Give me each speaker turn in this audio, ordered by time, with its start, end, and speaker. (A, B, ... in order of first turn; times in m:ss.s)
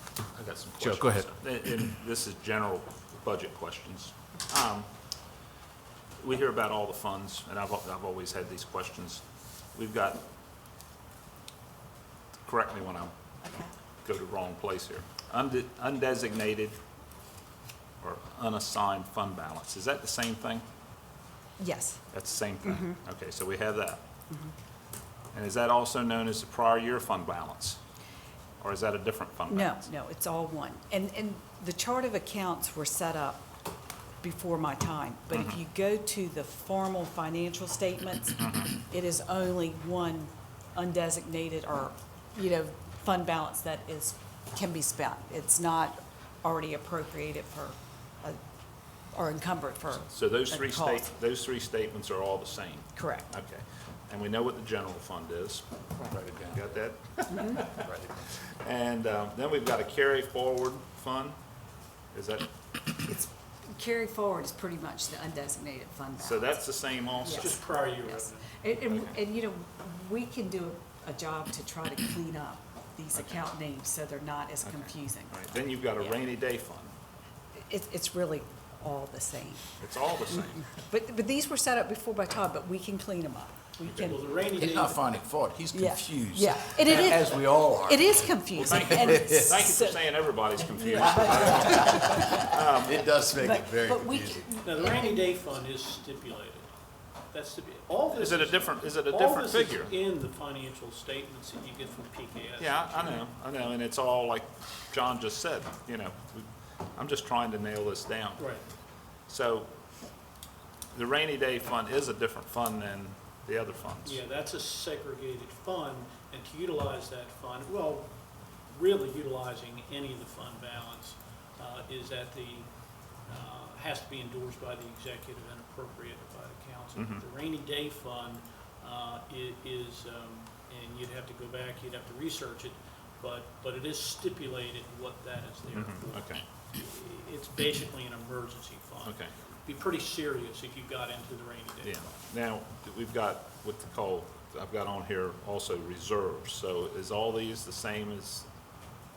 0:00.3-0:04.9 A
0:00.8-0:01.3 B
0:06.2-0:09.2 A
0:09.7-0:10.2 A
0:12.4-0:13.1 A
0:13.4-0:13.7 C
0:14.0-0:16.8 A
0:18.0-0:20.6 A
0:21.6-0:22.0 C
0:22.1-0:24.0 A
0:22.6-0:23.0 C
0:25.3-0:27.8 A
0:28.6-0:29.8 A
0:29.5-0:33.5 C
0:34.2-0:48.4 C
0:35.3-0:35.6 A
0:38.4-0:38.8 A
0:49.1-0:51.1 C
0:50.1-0:57.9 A
0:52.9-0:53.3 C
0:56.0-0:56.7 B
0:57.3-0:57.6 C
0:57.7-0:58.1 B
0:58.6-1:01.4 A
1:02.1-1:02.5 A
1:03.0-1:15.4 C
1:06.2-1:07.8 A
1:07.6-1:08.1 D
1:13.1-1:13.5 A
1:14.6-1:16.9 A
1:16.0-1:16.2 C
1:17.6-1:19.8 C
1:19.8-1:20.7 A
1:20.3-1:24.9 C
1:23.8-1:24.1 A
1:24.5-1:29.6 B
1:25.7-1:30.1 C
1:28.5-1:33.0 A
1:30.8-1:32.6 C
1:31.2-1:34.6 B
1:33.3-1:35.3 C
1:34.6-1:35.6 D
1:38.1-1:40.0 A
1:38.2-1:38.6 D
1:40.8-1:41.2 D
1:41.7-1:42.3 D
1:42.6-1:48.6 A
1:49.2-1:49.7 A
1:50.9-1:54.2 A
1:54.4-1:58.0 D
1:58.8-2:02.6 D
2:03.4-2:16.0 D
2:06.9-2:07.2 A
2:15.7-2:16.5 A
2:17.2-2:18.8 D
2:19.0-2:19.3 A
2:19.7-2:21.9 D
2:21.8-2:28.5 A